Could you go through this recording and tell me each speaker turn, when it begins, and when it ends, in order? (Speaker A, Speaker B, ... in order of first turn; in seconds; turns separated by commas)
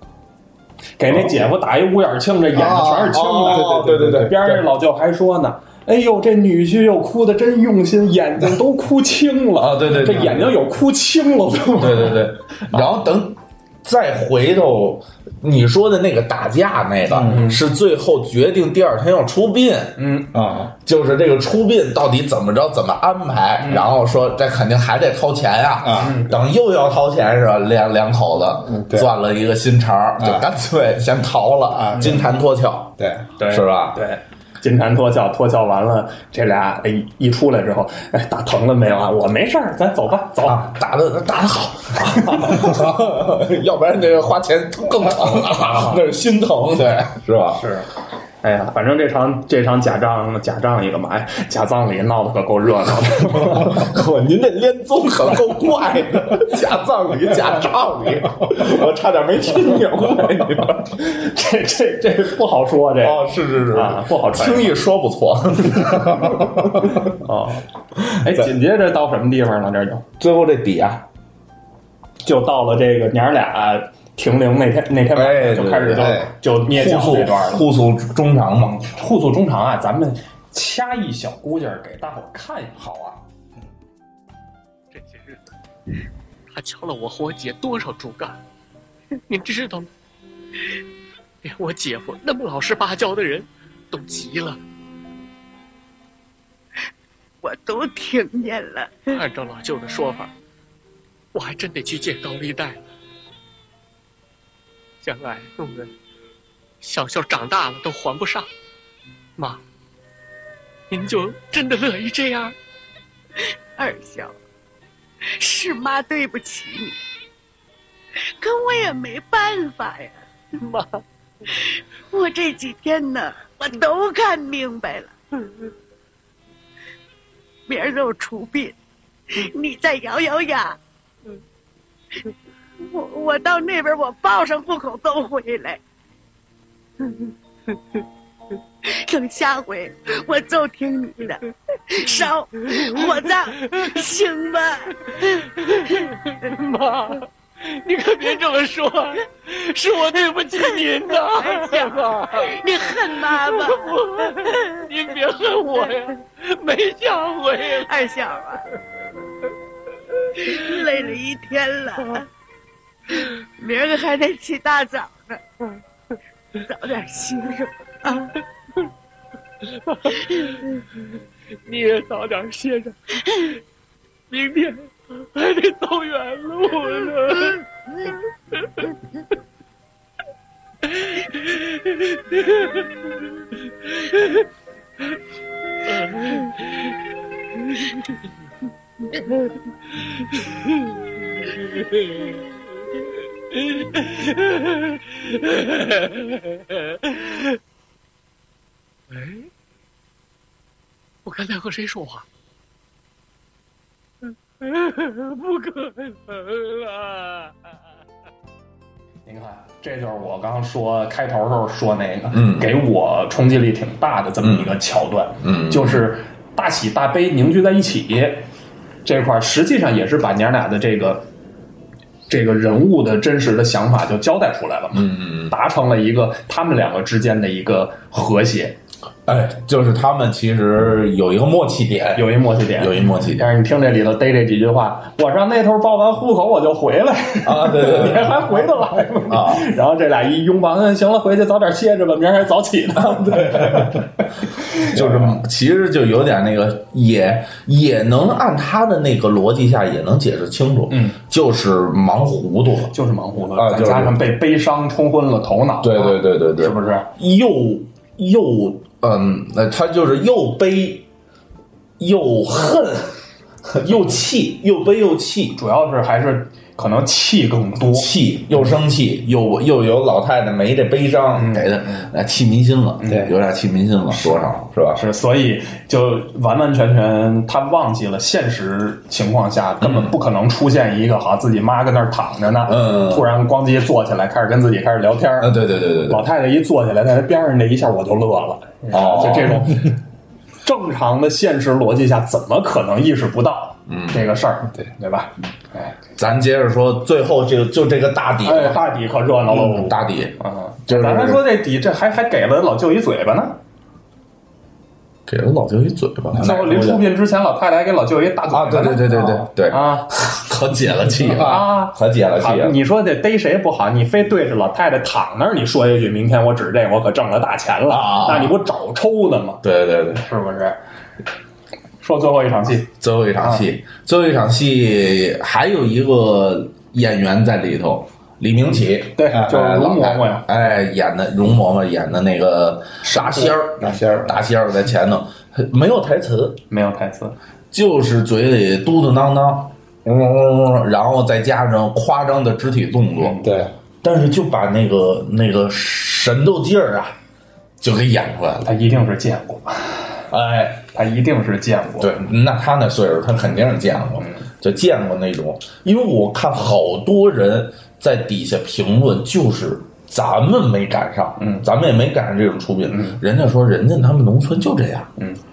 Speaker A: 1.0-12.2, Speaker B: 2.5-4.3, Speaker C: 3.1-4.6, Speaker C: 9.6-10.6, Speaker C: 11.8-20.0, Speaker B: 17.1-17.4, Speaker A: 17.3-17.6, Speaker A: 20.0-20.3, Speaker B: 20.3-20.7, Speaker C: 20.9-33.0, Speaker B: 25.8-26.1, Speaker A: 26.0-26.3, Speaker B: 28.7-29.1, Speaker B: 31.7-32.2, Speaker B: 33.0-33.2, Speaker A: 33.4-40.7, Speaker C: 33.5-34.0, Speaker C: 40.5-47.6, Speaker A: 47.5-47.9, Speaker A: 48.4-53.8, Speaker C: 53.3-60.9, Speaker A: 61.0-63.2, Speaker C: 63.0-67.1, Speaker A: 63.7-64.8, Speaker A: 67.1-67.7, Speaker C: 68.0-68.5, Speaker A: 68.2-70.0, Speaker C: 70.2-71.0, Speaker A: 72.2-77.6, Speaker C: 75.1-78.9, Speaker B: 76.0-76.3, Speaker A: 78.6-82.8, Speaker C: 82.8-83.2, Speaker D: 84.9-85.4, Speaker D: 86.5-88.4, Speaker D: 89.3-89.9, Speaker D: 91.4-94.6, Speaker E: 97.4-99.2, Speaker D: 99.1-100.3, Speaker D: 101.3-102.8, Speaker D: 105.0-105.9, Speaker D: 106.8-108.5, Speaker D: 110.9-112.5, Speaker E: 113.8-114.3, Speaker E: 115.4-117.0, Speaker E: 118.4-120.2, Speaker D: 120.6-121.0, Speaker E: 122.1-125.2, Speaker E: 127.7-128.8, Speaker E: 129.3-130.8, Speaker E: 132.8-135.8, Speaker E: 138.9-141.4, Speaker E: 141.9-145.4, Speaker D: 142.6-144.0, Speaker D: 145.6-158.1, Speaker E: 151.3-154.8, Speaker E: 157.8-158.6, Speaker E: 160.5-162.2, Speaker E: 163.6-165.4, Speaker E: 166.7-168.3, Speaker D: 169.9-170.6, Speaker D: 171.7-173.0, Speaker D: 174.3-177.6, Speaker D: 180.9-182.9, Speaker D: 183.9-184.4, Speaker D: 185.9-186.9, Speaker D: 191.6-192.4, Speaker D: 193.7-197.6, Speaker D: 199.1-199.5, Speaker D: 201.2-202.3, Speaker D: 204.6-207.5, Speaker A: 209.3-218.5, Speaker C: 212.3-212.7, Speaker C: 214.4-214.8, Speaker C: 215.4-216.1, Speaker A: 219.1-221.2, Speaker A: 222.3-228.8, Speaker C: 224.9-225.5, Speaker C: 229.3-233.5, Speaker A: 232.2-244.0, Speaker C: 237.4-238.7, Speaker C: 239.3-239.7, Speaker C: 243.0-244.0, Speaker C: 244.8-252.9, Speaker A: 244.8-245.3, Speaker A: 250.9-251.2, Speaker A: 252.9-257.1, Speaker C: 253.6-254.2, Speaker C: 255.8-261.1, Speaker C: 262.0-263.1, Speaker C: 263.7-265.6, Speaker A: 265.6-268.1, Speaker C: 267.9-275.0, Speaker A: 271.4-272.1, Speaker A: 273.0-273.3, Speaker A: 274.9-285.5, Speaker C: 279.8-280.1, Speaker C: 282.7-283.3, Speaker C: 285.4-286.3, Speaker A: 286.1-290.0, Speaker C: 288.9-289.8, Speaker A: 290.6-295.9, Speaker C: 293.9-294.3, Speaker C: 296.2-298.8, Speaker A: 298.4-303.6, Speaker C: 299.5-301.4, Speaker C: 305.3-307.1, Speaker A: 306.4-310.1, Speaker C: 308.5-312.8, Speaker A: 311.4-319.6, Speaker C: 317.9-318.6, Speaker C: 319.6-320.2, Speaker A: 320.2-320.8, Speaker A: 322.0-322.9, Speaker C: 323.0-336.6, Speaker A: 329.2-330.4, Speaker A: 333.0-333.5, Speaker B: 333.8-334.4, Speaker A: 336.7-337.4, Speaker C: 337.7-343.4, Speaker B: 343.4-343.7, Speaker C: 344.0-347.2, Speaker C: 347.8-348.7, Speaker A: 348.6-350.2, Speaker C: 350.3-350.9, Speaker A: 350.9-352.1, Speaker C: 352.0-365.1, Speaker A: 354.2-354.4, Speaker A: 361.4-361.6, Speaker A: 362.9-363.2